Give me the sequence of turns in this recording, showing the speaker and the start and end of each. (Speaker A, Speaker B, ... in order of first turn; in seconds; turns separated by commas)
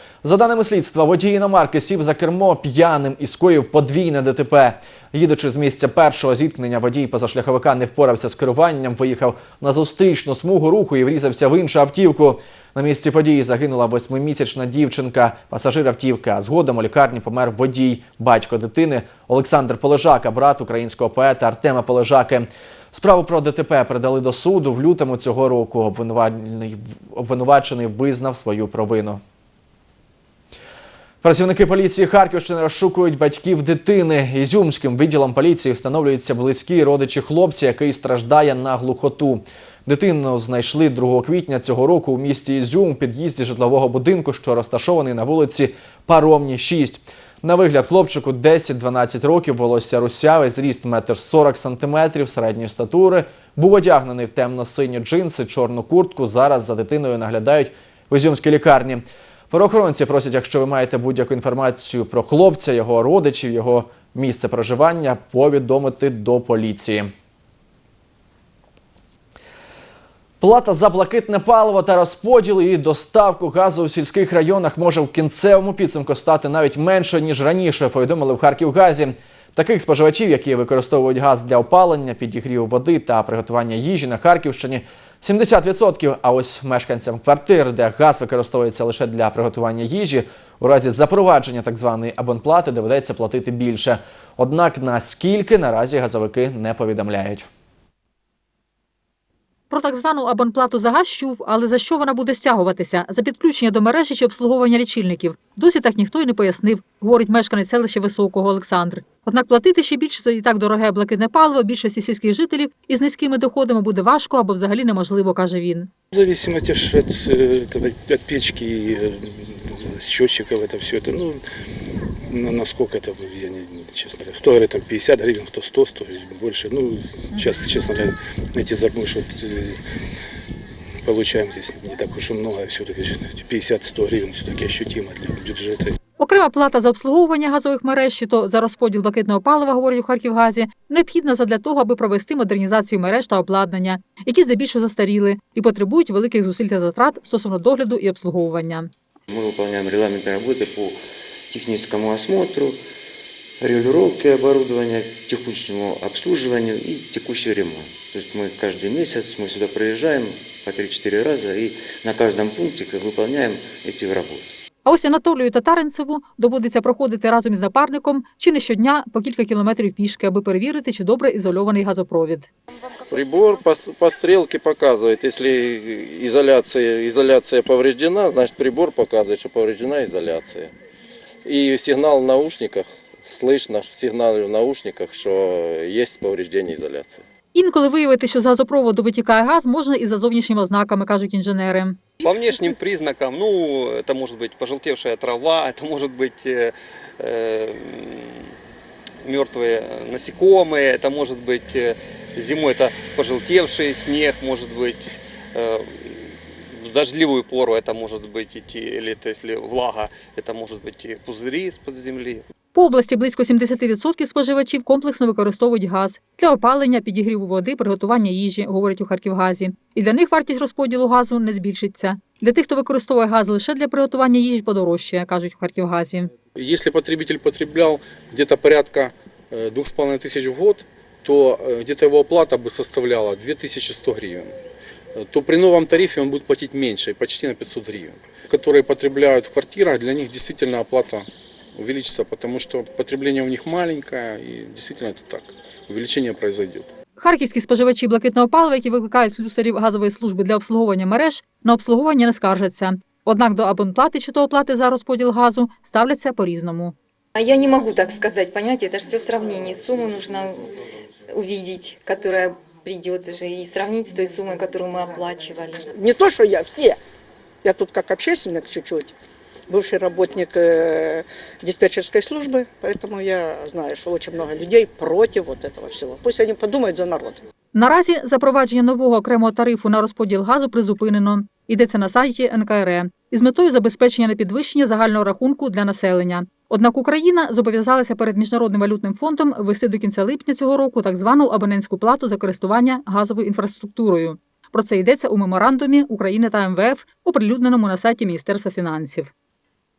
Speaker A: 0.2-29.2, Speaker A: 31.2-67.1, Speaker A: 70.4-97.5, Speaker B: 99.7-115.9, Speaker C: 116.1-121.4, Speaker C: 122.3-129.8, Speaker C: 131.0-135.9, Speaker B: 136.2-148.9, Speaker D: 149.3-152.9, Speaker D: 153.6-164.6, Speaker B: 164.8-172.5, Speaker E: 173.1-180.7, Speaker E: 181.4-187.2, Speaker B: 187.5-192.0, Speaker F: 192.2-196.4, Speaker F: 197.5-197.7, Speaker F: 199.3-201.5, Speaker F: 202.4-205.0, Speaker F: 206.8-212.3, Speaker B: 212.7-226.3, Speaker C: 226.6-234.6, Speaker C: 235.2-246.9, Speaker B: 247.2-256.9, Speaker G: 257.4-260.7, Speaker G: 261.3-265.9, Speaker H: 265.9-267.0, Speaker H: 267.6-269.1, Speaker H: 269.7-277.4, Speaker B: 277.8-299.3